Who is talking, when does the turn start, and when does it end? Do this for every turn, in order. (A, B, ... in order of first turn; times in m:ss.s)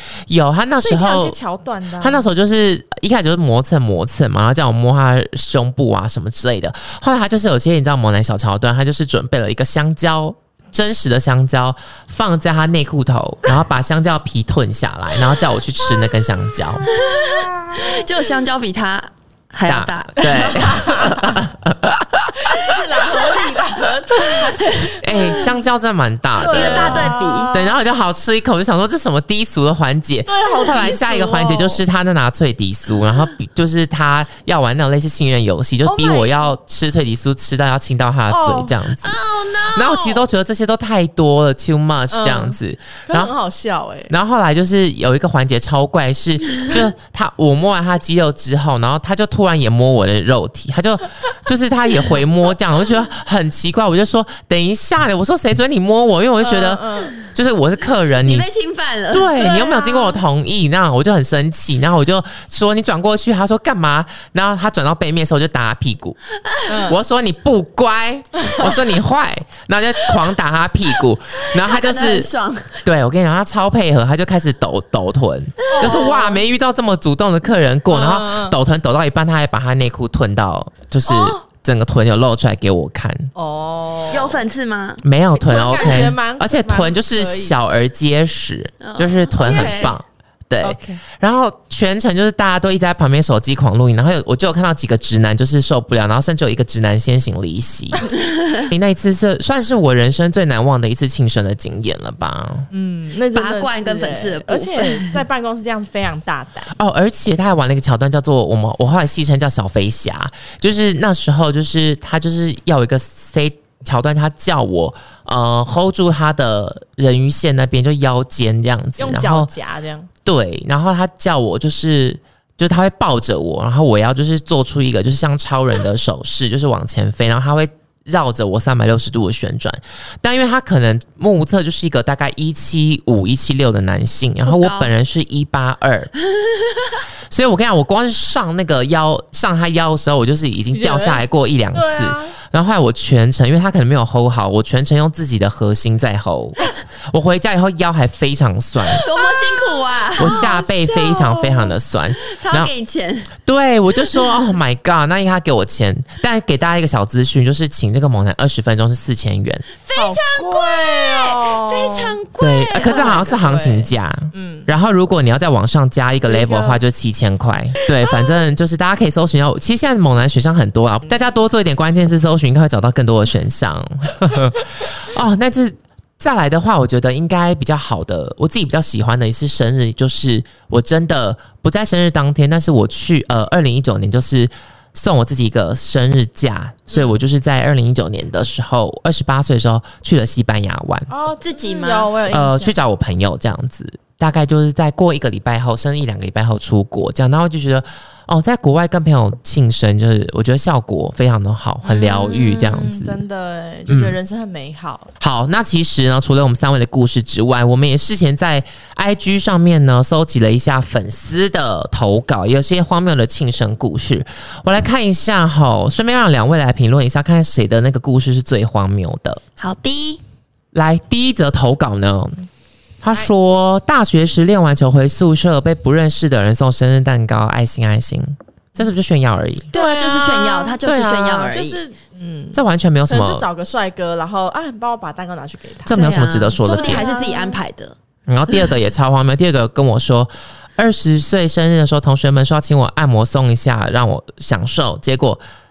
0:00.3-0:01.4 A
0:00.8-0:02.3 B
0:02.0-0:16.8 A
0:16.8-0:18.2 B
0:16.9-0:21.1 C
0:19.7-0:22.8 A
0:20.2-0:21.3 B
0:22.4-0:25.6 B
0:24.2-0:24.9 C
0:25.0-0:39.2 A
0:26.4-0:27.8 B
0:26.4-0:27.6 C
0:30.3-0:31.8 B
0:35.8-0:36.5 B
0:38.3-0:38.8 B
0:39.0-0:40.3 C
0:39.7-0:43.3 A
0:42.1-0:44.1 B
0:44.1-0:58.4 A
0:56.4-0:57.2 B
0:58.2-0:59.3 C
0:59.1-1:06.2 A
0:59.4-1:00.2 B
1:06.4-1:06.7 C
1:06.7-1:07.0 B
1:06.9-1:12.3 A
1:08.5-1:08.8 B
1:11.5-1:12.8 C
1:12.8-1:23.3 A
1:15.7-1:16.1 C
1:15.7-1:16.4 B
1:17.9-1:18.6 B
1:21.1-1:21.4 B
1:23.4-1:24.4 B
1:24.1-1:25.0 C
1:25.0-1:38.1 A
1:25.3-1:27.6 B
1:28.8-1:30.0 C
1:29.4-1:30.0 B
1:30.6-1:31.0 B
1:38.1-1:38.7 C
1:38.6-1:42.7 A
1:42.7-1:46.7 B
1:43.3-1:45.1 C
1:46.7-1:59.5 A
1:59.0-2:00.1 B
2:00.2-2:16.1 A
2:14.4-2:14.9 C
2:16.3-2:17.0 C
2:17.3-2:29.0 A
2:20.7-2:22.4 B
2:28.9-2:30.6 C
2:28.9-2:31.8 B
2:30.2-2:32.7 A
2:32.2-2:33.3 C
2:33.4-2:39.6 A
2:39.8-2:43.3 C
2:40.0-2:42.2 B
2:42.4-3:11.1 A
2:42.8-2:44.7 B
2:46.2-2:46.8 B
3:11.1-3:12.8 B
3:11.4-3:12.2 C
3:12.3-3:23.2 A
3:21.8-3:25.1 B
3:23.9-3:24.2 A
3:25.2-3:39.4 A
3:39.6-3:40.2 C
3:40.7-3:42.4 A
3:43.0-3:49.7 A
3:49.7-3:51.8 C
3:49.7-3:50.8 B
3:50.8-3:51.5 A
3:51.3-3:57.6 B
3:52.5-3:53.5 A
3:55.9-3:57.1 A
3:55.9-3:58.0 C
3:58.3-4:05.4 A